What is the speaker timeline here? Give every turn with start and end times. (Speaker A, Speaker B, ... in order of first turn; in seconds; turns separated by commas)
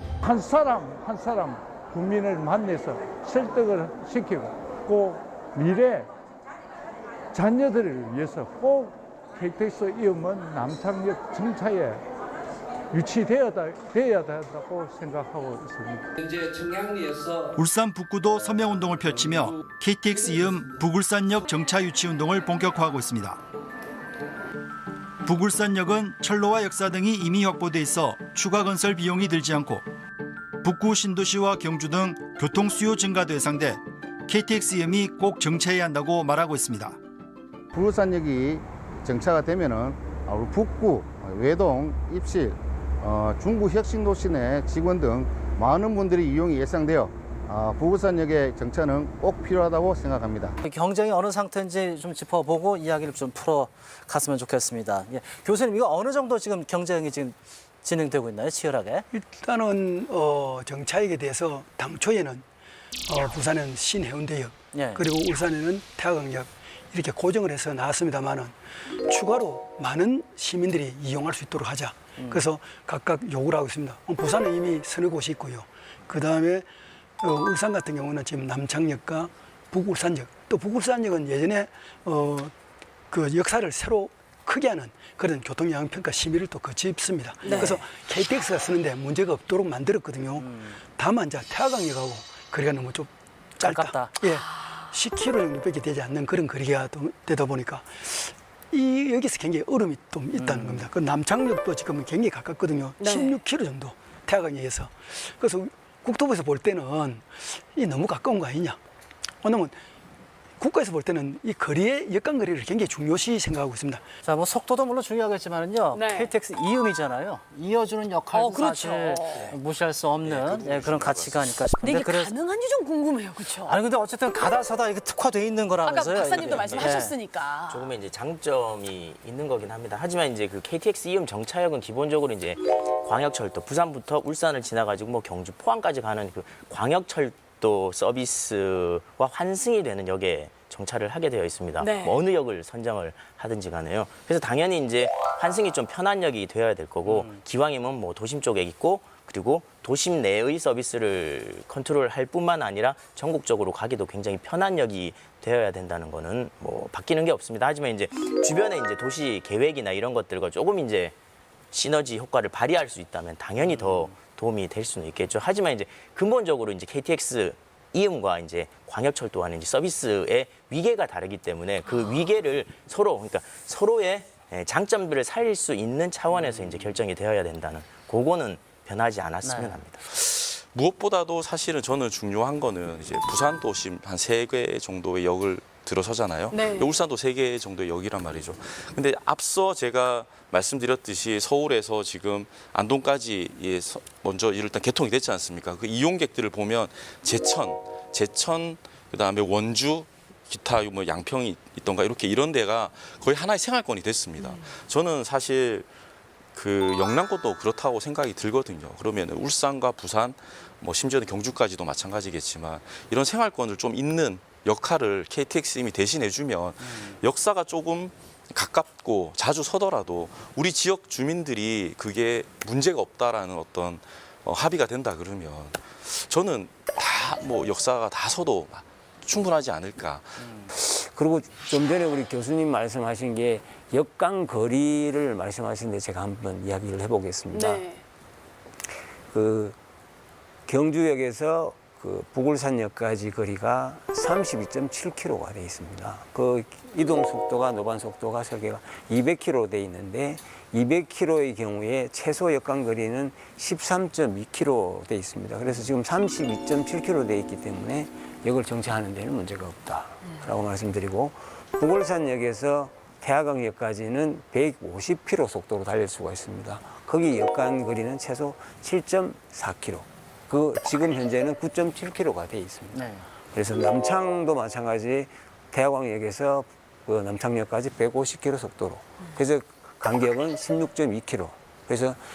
Speaker A: 0.2-6.1, Speaker A: 7.3-12.0, Speaker A: 12.9-16.1, Speaker B: 17.6-23.4, Speaker B: 25.2-29.9, Speaker B: 30.6-37.0, Speaker C: 37.7-50.6, Speaker D: 50.6-59.1, Speaker E: 59.1-62.4, Speaker E: 63.1-76.7, Speaker D: 64.7-65.0, Speaker D: 72.2-72.4, Speaker E: 77.2-82.5, Speaker E: 83.1-108.8, Speaker F: 87.4-87.8, Speaker D: 90.4-90.7, Speaker D: 93.6-94.2, Speaker F: 94.2-94.8, Speaker D: 100.4-100.9, Speaker F: 103.0-103.4, Speaker E: 109.4-109.8, Speaker E: 110.6-114.0, Speaker D: 114.2-122.3, Speaker F: 115.9-116.3, Speaker F: 118.3-119.4, Speaker G: 120.2-121.7, Speaker F: 121.8-123.8, Speaker D: 123.6-127.1, Speaker F: 125.9-127.9, Speaker H: 126.7-126.9, Speaker H: 127.7-161.2, Speaker F: 141.8-142.2, Speaker H: 161.7-180.1, Speaker D: 179.4-179.8, Speaker G: 180.1-205.9, Speaker F: 186.5-186.9, Speaker G: 206.6-230.7, Speaker I: 230.7-237.9, Speaker F: 237.5-238.0, Speaker I: 239.3-239.8, Speaker I: 240.7-282.2, Speaker D: 272.9-273.3